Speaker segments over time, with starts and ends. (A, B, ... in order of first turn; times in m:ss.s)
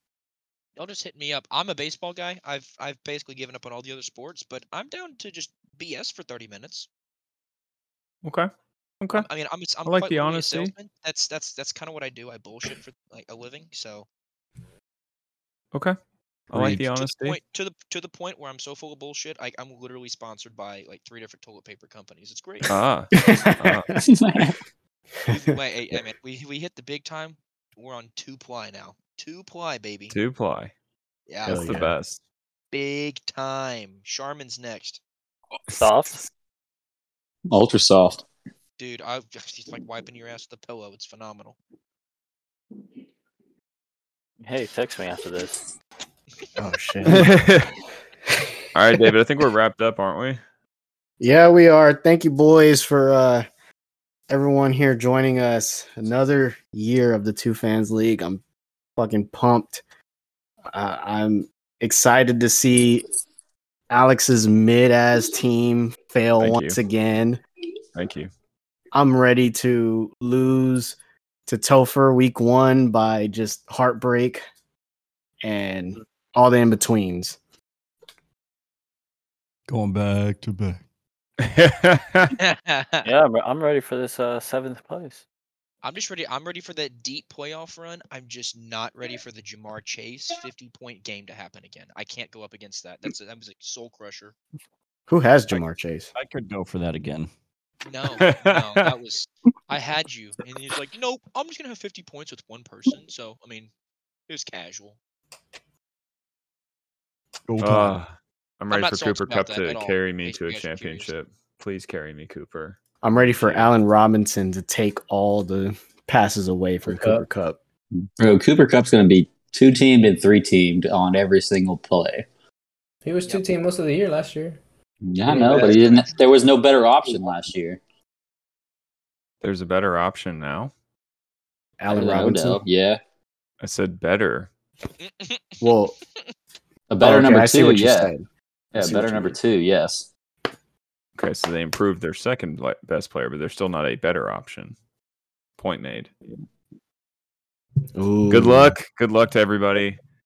0:00.8-0:06.9 A
0:08.2-0:08.5 B
0:09.0-0:09.3 B
0:09.1-0:14.1 A
0:09.8-0:10.7 B
0:16.5-0:17.4 B
0:16.6-0:22.7 A
0:22.7-0:23.9 B
0:23.3-0:23.8 C
0:24.0-0:24.6 D
0:25.3-0:25.6 C
0:25.3-0:30.2 A
0:30.1-0:30.7 B
0:31.3-0:31.6 A
0:31.4-0:31.9 C
0:31.4-0:32.2 B
0:32.7-0:35.0 A
0:35.8-0:36.2 E
0:37.5-0:38.2 D
0:38.8-0:41.6 A
0:44.4-0:45.6 E
0:46.6-0:47.3 C
0:47.0-0:47.7 B
0:48.7-0:50.4 B
0:51.2-0:53.5 C
0:54.3-0:58.4 C
0:59.0-0:59.8 C
1:00.7-1:03.1 C
1:03.9-1:07.4 C
1:06.4-1:06.8 B
1:07.9-1:08.3 B
1:08.9-1:11.0 C
1:11.5-1:14.4 C
1:15.4-1:17.4 C
1:19.7-1:20.8 F
1:21.4-1:22.4 B
1:22.4-1:23.0 A
1:23.0-1:25.2 E
1:25.8-1:34.3 A
1:35.1-1:36.1 C
1:36.1-1:37.3 F
1:37.9-1:43.7 A
1:38.2-1:38.9 B
1:44.3-1:45.0 A
1:47.5-1:48.0 F
1:47.6-1:52.8 B
1:48.7-1:51.1 A
1:53.0-1:57.6 C
1:53.4-1:53.7 B
1:56.8-1:57.2 G
1:58.0-2:02.2 D
2:03.0-2:04.6 G
2:05.0-2:07.8 D
2:05.2-2:05.8 G
2:05.4-2:06.2 A
2:09.4-2:10.7 B
2:11.8-2:12.6 C
2:11.9-2:13.0 D
2:13.6-2:14.5 B
2:15.0-2:16.2 A
2:15.6-2:15.9 C
2:16.9-2:18.1 D
2:17.0-2:18.2 C
2:18.7-2:20.1 D
2:18.7-2:19.4 C
2:21.2-2:24.8 B
2:25.6-2:26.1 B
2:27.9-2:28.7 C
2:28.3-2:30.0 B